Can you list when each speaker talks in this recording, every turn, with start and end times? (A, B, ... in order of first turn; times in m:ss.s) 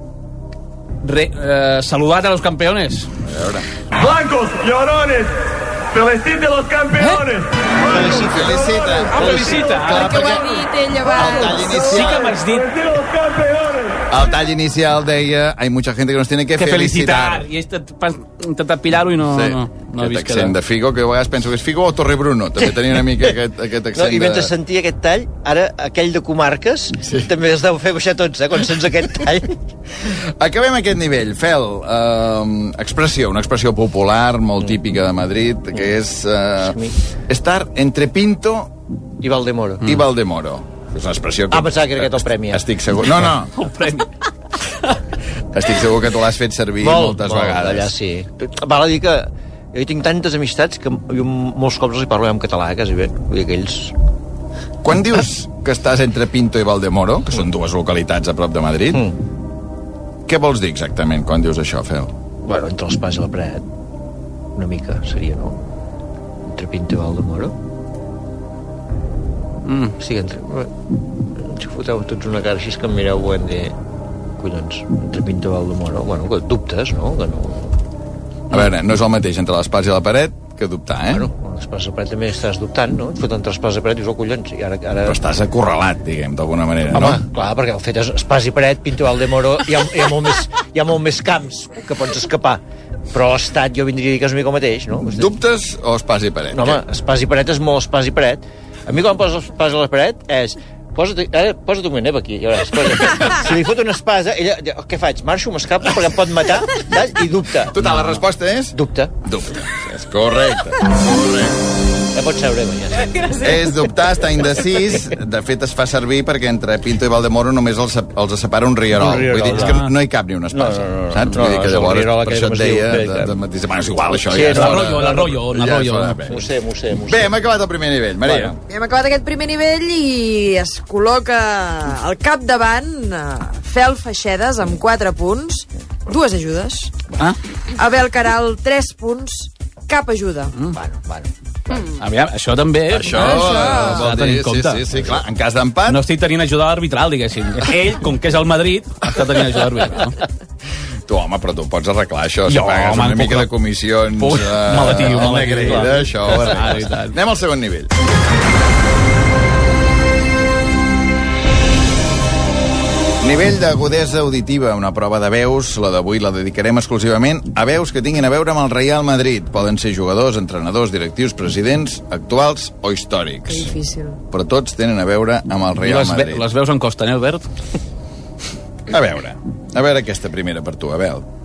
0:01.0-0:03.1 A
0:03.2-0:03.7 B
0:04.0-0:10.3 C
0:07.9-0:10.5 B
0:09.1-0:10.2 A
0:09.9-0:11.9 D
0:11.1-0:12.3 B
0:11.2-0:12.8 A
0:12.0-0:14.0 C
0:14.1-0:17.5 B
0:16.6-0:20.6 A
0:19.3-0:24.5 B
0:23.9-0:29.6 E
0:30.1-0:36.8 B
0:36.6-0:37.0 E
0:37.3-0:38.7 B
0:39.2-0:40.0 E
0:39.8-0:43.5 B
0:41.5-0:42.6 E
0:43.6-0:44.1 A
0:45.5-0:47.9 B
0:46.8-0:53.9 E
0:54.8-0:59.0 B
1:00.3-1:02.1 B
1:02.4-1:03.6 E
1:04.6-1:05.6 E
1:06.5-1:07.6 E
1:09.7-1:10.0 A
1:10.0-1:10.8 E
1:11.4-1:13.8 E
1:14.4-1:17.8 E
1:18.5-1:21.3 B
1:21.1-1:25.2 E
1:25.1-1:27.2 B
1:26.9-1:32.6 E
1:33.1-1:35.3 E
1:35.1-1:36.8 B
1:36.5-1:47.8 E
1:47.7-1:51.6 B
1:47.8-1:48.2 A
1:48.7-1:49.1 E
1:52.1-1:53.2 E
1:53.4-2:06.4 B
1:58.9-1:59.9 E
1:59.5-1:59.9 A
2:00.5-2:03.3 E
2:04.3-2:05.2 E
2:04.5-2:06.3 A
2:06.3-2:07.4 E
2:07.1-2:08.6 B
2:08.7-2:16.9 D
2:17.8-2:20.5 D
2:20.7-2:21.8 E
2:22.0-2:24.8 A
2:22.9-2:26.0 B
2:23.1-2:24.1 D
2:25.9-2:30.2 A
2:31.1-2:37.9 B
2:32.5-2:33.5 A
2:34.2-2:37.1 A
2:35.1-2:36.0 E
2:43.2-2:53.7 B
2:53.5-2:54.2 D
2:54.3-2:56.4 B
2:55.8-2:57.5 A
2:58.9-3:01.2 B